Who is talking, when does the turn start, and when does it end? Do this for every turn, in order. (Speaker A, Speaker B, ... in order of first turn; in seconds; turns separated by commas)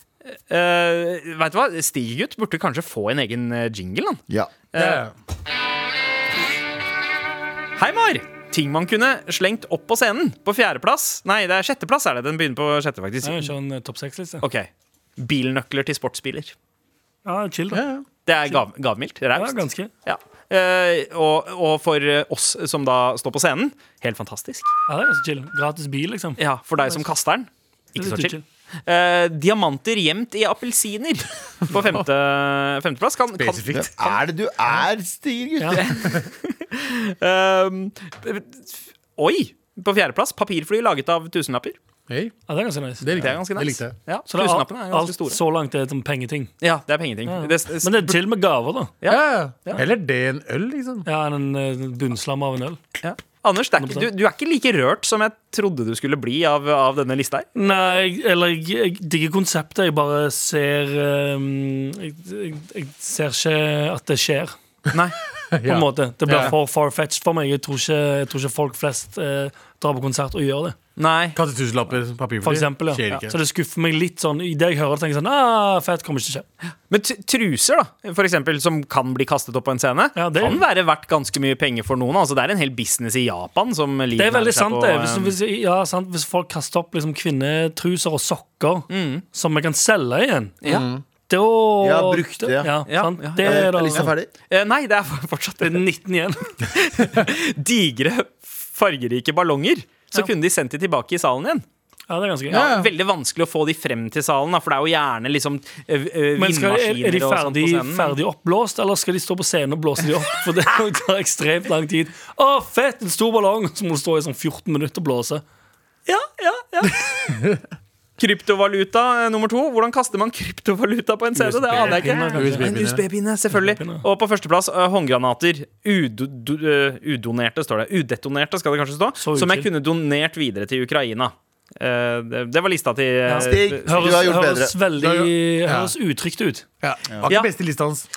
Speaker A: 0.2-4.2, Speaker B: 4.3-4.5, Speaker A: 4.7-5.0, Speaker C: 4.8-5.1, Speaker A: 7.8-13.5, Speaker D: 13.2-14.4, Speaker A: 14.4-16.6, Speaker D: 17.2-17.8, Speaker C: 17.7-18.0, Speaker A: 18.3-24.7, Speaker D: 19.3-19.9, Speaker D: 24.9-27.0, Speaker A: 26.4-34.1, Speaker D: 28.0-28.4, Speaker C: 31.7-32.0, Speaker C: 33.4-33.9, Speaker B: 33.7-35.9, Speaker A: 35.8-41.8, Speaker C: 42.1-42.3, Speaker D: 42.5-43.3, Speaker C: 43.0-44.0, Speaker A: 43.1-45.4, Speaker D: 44.3-46.5, Speaker A: 46.6-48.2, Speaker D: 47.3-49.0, Speaker A: 49.0-49.8, Speaker C: 49.1-51.1, Speaker D: 51.1-52.8, Speaker A: 53.0-57.5, Speaker D: 53.8-54.1, Speaker D: 57.5-64.6, Speaker C: 65.5-66.5, Speaker D: 65.7-70.8, Speaker A: 66.3-66.5, Speaker A: 71.0-71.4, Speaker C: 71.4-73.3, Speaker D: 72.4-76.5, Speaker A: 76.9-85.3, Speaker D: 80.2-80.6, Speaker D: 84.2-90.6, Speaker A: 88.9-89.2, Speaker C: 90.7-91.0, Speaker D: 91.3-94.1, Speaker B: 91.8-92.8, Speaker A: 92.9-95.8, Speaker B: 93.4-94.3, Speaker D: 95.6-96.6, Speaker A: 96.7-101.6, Speaker D: 102.1-102.6, Speaker A: 102.5-108.2, Speaker C: 102.5-102.9, Speaker D: 106.4-115.4, Speaker A: 116.1-117.4, Speaker A: 118.2-134.2, Speaker C: 121.4-123.0, Speaker D: 121.7-122.7, Speaker D: 123.5-124.0, Speaker D: 129.2-129.7, Speaker D: 133.3-136.7, Speaker B: 133.4-134.8, Speaker C: 135.0-135.9, Speaker C: 136.8-138.1